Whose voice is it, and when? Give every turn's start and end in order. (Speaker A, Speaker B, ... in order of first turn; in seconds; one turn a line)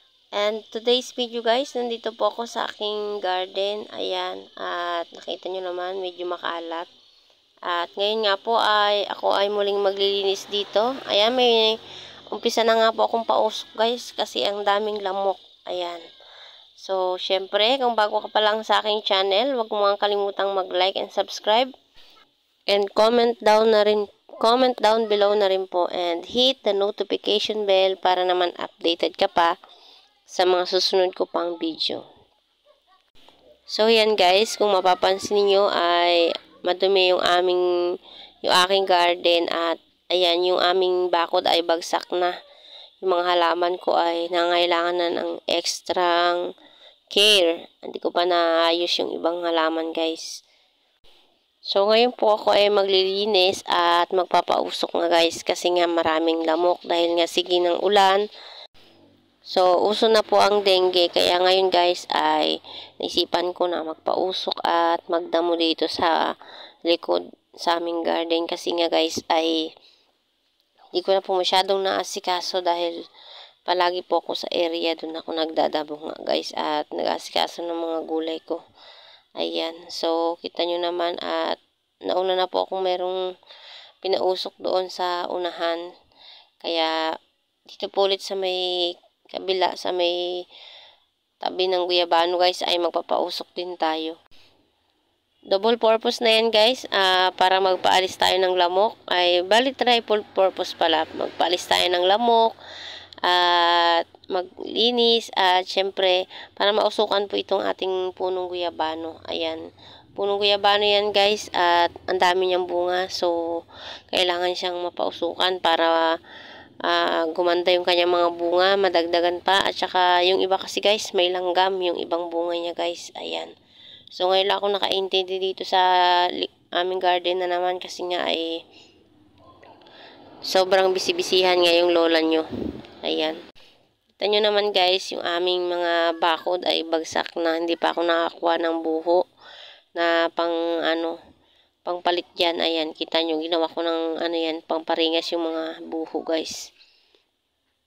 Speaker A: 0.3-6.9
Speaker A: 7.7-11.8
Speaker A: 12.3-16.0
Speaker A: 16.8-21.7
Speaker A: 22.7-29.5
Speaker A: 30.3-32.0
Speaker A: 33.7-37.6
Speaker A: 38.4-42.4
Speaker A: 43.0-46.4
Speaker A: 47.1-50.4
Speaker A: 51.7-58.2
Speaker A: 59.4-66.2
Speaker A: 66.9-69.7
Speaker A: 70.9-73.0
Speaker A: 73.7-78.6
Speaker A: 79.4-83.2
Speaker A: 84.0-85.8
Speaker A: 86.6-86.9
Speaker A: 87.7-90.2
Speaker A: 91.4-94.2
Speaker A: 95.5-102.5
Speaker A: 103.2-109.6
Speaker A: 110.2-113.4
Speaker A: 114.1-116.0
Speaker A: 116.8-123.5
Speaker A: 124.1-128.5
Speaker A: 130.5-132.5
Speaker A: 133.0-133.4
Speaker A: 134.2-139.2
Speaker A: 139.9-141.2
Speaker A: 141.8-146.6